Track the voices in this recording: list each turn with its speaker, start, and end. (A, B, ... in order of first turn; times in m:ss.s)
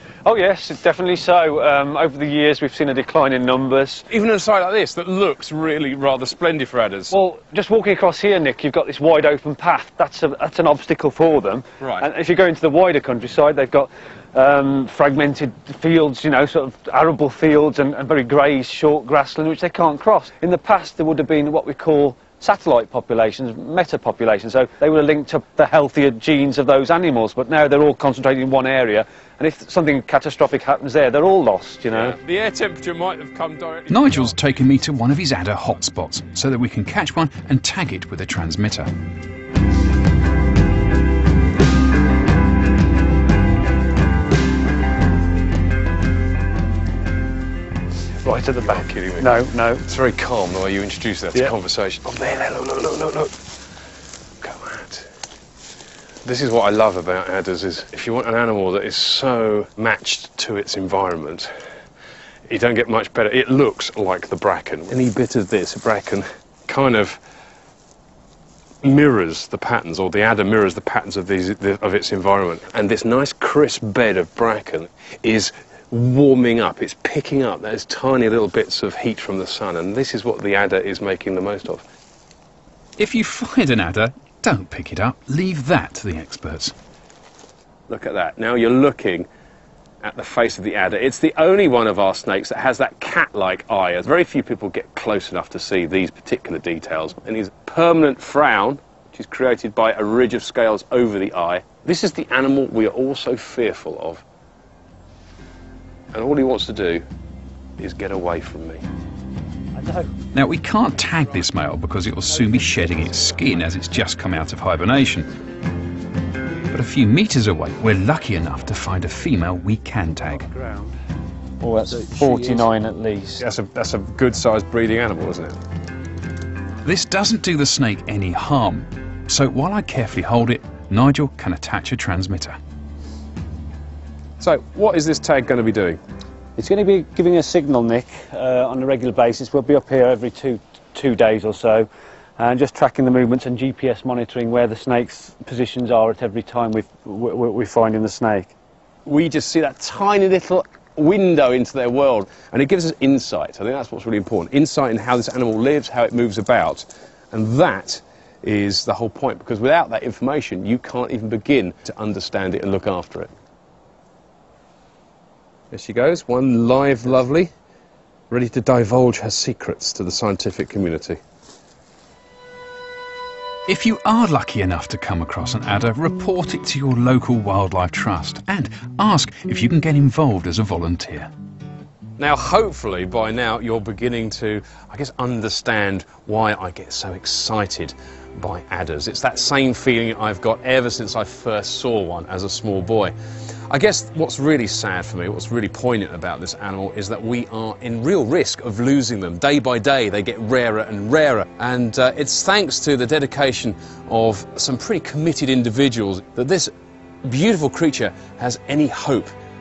0:00.2-0:04.0 A
0:04.1-0:07.2 B
0:07.1-0:32.2 A
0:11.8-0:12.1 B
0:31.9-0:34.6 B
0:33.9-0:38.9 C
0:48.2-0:49.8 A
0:48.5-0:53.4 B
0:54.4-0:55.1 B
0:56.2-1:01.5 B
1:02.5-1:07.2 B
1:08.8-1:21.8 B
1:23.0-1:26.7 C
1:27.9-1:29.3 B
1:30.0-1:44.2 B
1:46.1-1:47.0 B
1:47.8-1:48.8 B
1:49.8-1:50.1 A
1:50.3-1:55.3 C
1:52.4-1:53.6 A
1:56.7-2:00.4 C
2:00.4-2:00.9 A
2:01.6-2:03.4 A
2:03.4-2:05.6 B
2:06.8-2:12.6 C
2:14.4-2:16.0 B
2:16.6-2:28.5 A
2:29.0-2:43.3 B
2:45.7-2:47.5 B
2:48.3-2:51.2 B
2:53.7-3:01.3 C
3:02.2-3:13.1 B
3:13.7-3:26.7 B
3:27.2-3:29.3 B